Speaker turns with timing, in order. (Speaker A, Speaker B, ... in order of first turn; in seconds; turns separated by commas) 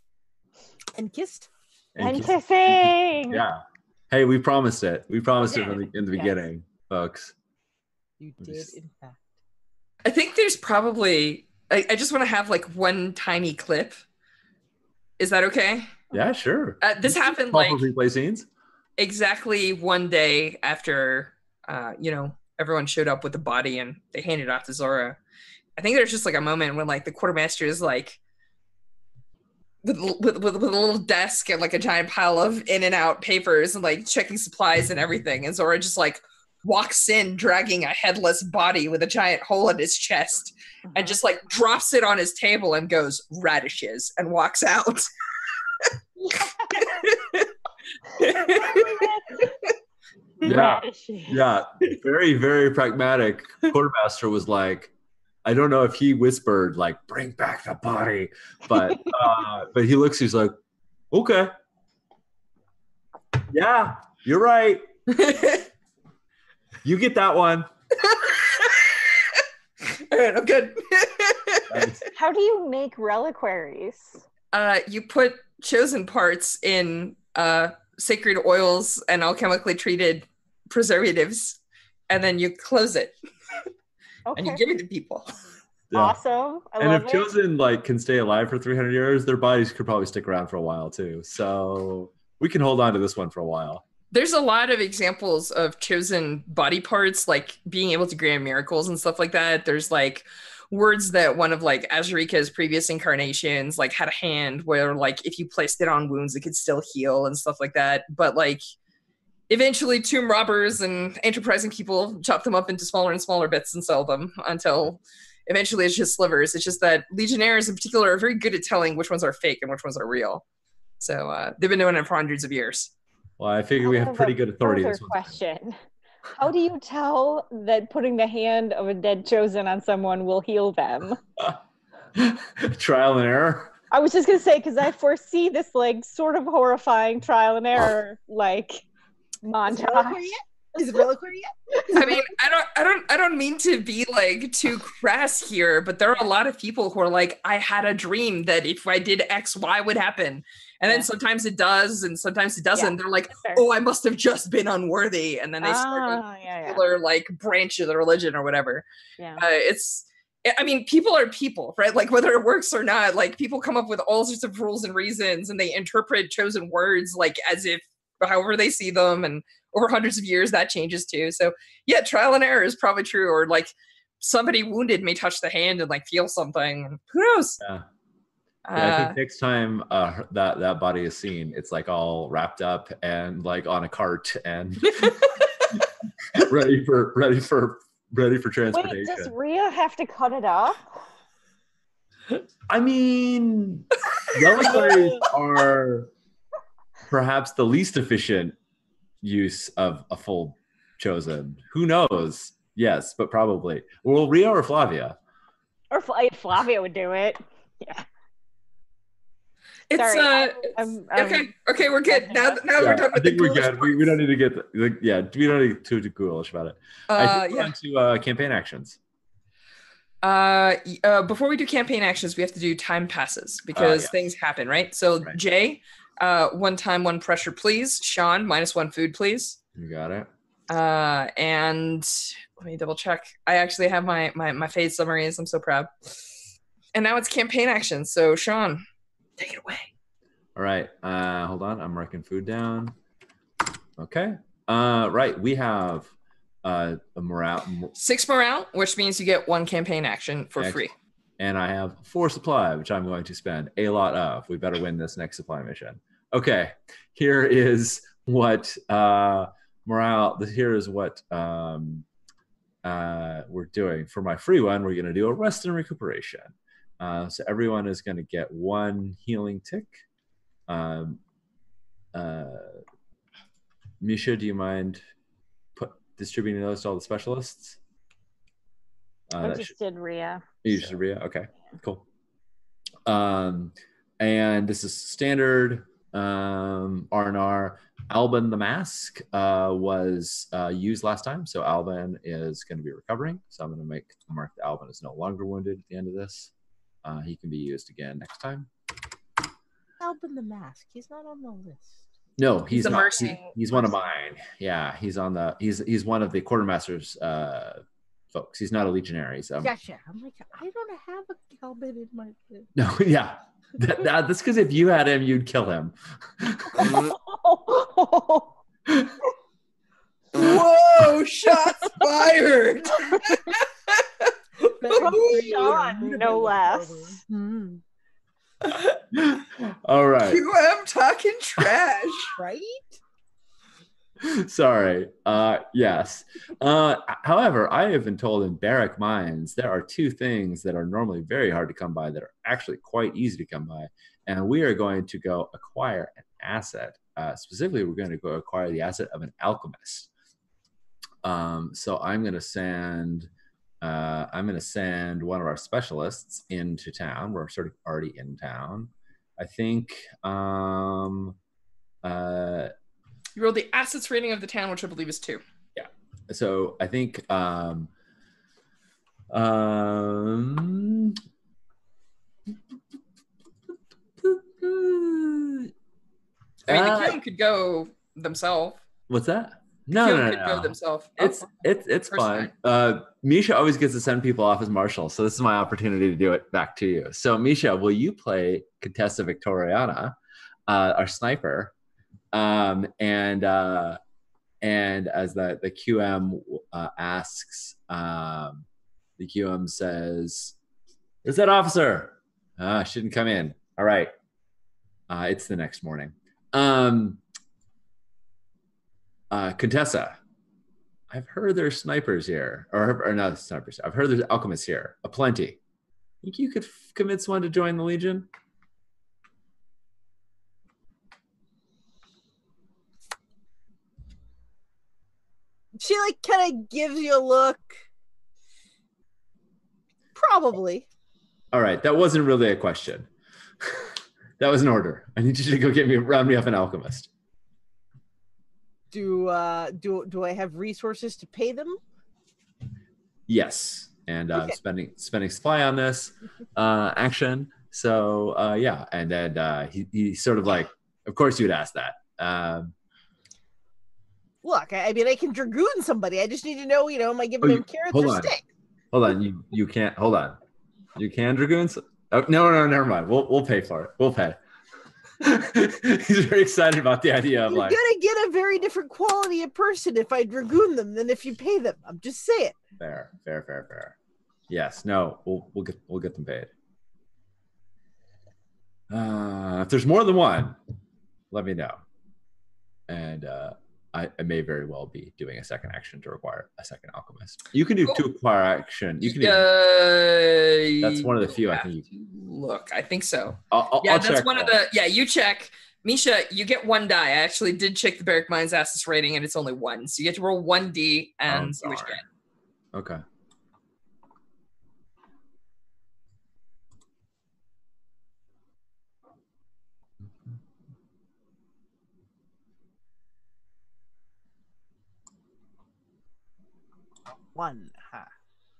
Speaker A: 0.9-1.5, Speaker B: 1.9-7.3, Speaker C: 2.0-3.4, Speaker C: 5.6-6.3, Speaker A: 8.2-9.3, Speaker B: 8.4-8.7, Speaker D: 10.0-14.0, Speaker D: 15.2-15.9, Speaker B: 16.1-18.5, Speaker D: 16.8-17.9, Speaker D: 19.0-25.2, Speaker D: 25.8-28.2, Speaker D: 29.8-45.1, Speaker C: 40.9-41.2, Speaker C: 46.3-47.0, Speaker D: 46.8-47.5, Speaker D: 48.1-49.0, Speaker C: 48.4-49.5, Speaker C: 50.4-51.4, Speaker B: 50.4-54.9, Speaker B: 55.4-60.5, Speaker B: 61.1-61.5, Speaker B: 63.5-65.4, Speaker D: 65.1-65.6, Speaker B: 66.8-67.7, Speaker D: 68.0-69.0, Speaker D: 69.9-71.8, Speaker B: 71.7-72.0, Speaker C: 72.1-74.2, Speaker D: 74.5-83.1, Speaker C: 84.3-84.6, Speaker D: 84.3-85.3, Speaker B: 85.9-86.2, Speaker C: 85.9-87.3, Speaker B: 86.8-93.8, Speaker D: 94.1-108.6, Speaker D: 109.5-120.4, Speaker D: 121.0-122.9, Speaker B: 123.4-125.4, Speaker C: 123.8-125.8, Speaker C: 126.4-131.2, Speaker B: 132.2-133.7, Speaker C: 133.9-138.8, Speaker C: 139.4-140.2, Speaker A: 139.7-142.4, Speaker D: 141.9-158.8, Speaker C: 152.8-153.6, Speaker C: 155.6-156.8, Speaker C: 159.2-159.4, Speaker D: 159.4-177.6, Speaker B: 177.6-177.8, Speaker D: 178.7-179.2, Speaker B: 178.8-185.1, Speaker D: 184.9-185.5, Speaker B: 186.3-189.3, Speaker C: 188.7-190.8, Speaker B: 192.7-196.1, Speaker B: 197.1-198.6, Speaker B: 199.2-205.2, Speaker C: 205.9-208.0, Speaker D: 209.9-214.1, Speaker C: 210.0-211.5, Speaker C: 212.1-212.6, Speaker B: 212.8-219.0, Speaker D: 217.1-217.7, Speaker D: 220.2-229.6, Speaker B: 223.7-224.2, Speaker B: 229.8-230.3, Speaker D: 230.7-235.9, Speaker D: 236.9-238.8, Speaker D: 239.4-239.9, Speaker B: 240.6-242.9, Speaker B: 244.0-246.1, Speaker B: 246.6-247.9, Speaker D: 247.9-250.9, Speaker B: 250.6-250.9, Speaker B: 251.4-262.1, Speaker B: 262.8-270.0, Speaker B: 270.7-271.2, Speaker B: 272.1-272.8, Speaker B: 274.0-275.0, Speaker B: 275.8-277.8, Speaker B: 279.3-279.7, Speaker C: 279.4-280.6, Speaker B: 280.6-282.0, Speaker B: 283.1-296.5, Speaker B: 297.0-298.7, Speaker A: 300.0-302.0, Speaker B: 302.4-309.7, Speaker D: 302.7-303.5, Speaker C: 303.0-303.3, Speaker A: 309.6-312.7, Speaker B: 312.7-317.0, Speaker C: 316.8-318.5, Speaker D: 320.3-324.3, Speaker A: 324.6-327.8, Speaker D: 324.8-325.9, Speaker C: 324.9-327.1, Speaker D: 328.7-328.9, Speaker B: 329.1-330.4, Speaker D: 330.2-332.3, Speaker A: 332.4-333.0, Speaker B: 334.2-350.1, Speaker B: 351.2-353.3, Speaker B: 353.8-361.4, Speaker B: 362.0-362.7, Speaker D: 363.4-365.4, Speaker B: 365.8-367.9, Speaker B: 369.3-371.2, Speaker B: 374.2-375.7, Speaker D: 376.7-378.8, Speaker B: 376.7-377.2, Speaker B: 379.1-390.1, Speaker D: 380.0-381.4, Speaker D: 382.1-382.5, Speaker B: 390.7-391.7, Speaker B: 392.3-394.0, Speaker B: 394.6-398.6, Speaker B: 399.2-400.5, Speaker B: 401.2-404.1, Speaker B: 405.1-407.2, Speaker B: 409.3-410.2, Speaker B: 411.1-415.6, Speaker B: 416.2-418.3, Speaker A: 425.8-427.8, Speaker A: 430.1-430.9, Speaker B: 431.5-433.1, Speaker B: 433.6-437.1, Speaker A: 438.9-441.8, Speaker B: 443.3-452.7, Speaker A: 454.4-458.4, Speaker B: 457.4-458.3, Speaker B: 458.9-460.4, Speaker B: 460.9-464.4, Speaker B: 465.2-467.8, Speaker A: 467.5-472.6, Speaker B: 472.8-473.9, Speaker B: 474.5-476.5, Speaker B: 478.9-480.6, Speaker B: 481.3-481.8, Speaker B: 482.9-489.4, Speaker D: 489.0-502.0, Speaker B: 490.8-491.8, Speaker B: 493.5-494.6, Speaker B: 501.3-502.0, Speaker B: 502.7-503.0, Speaker A: 517.3-518.1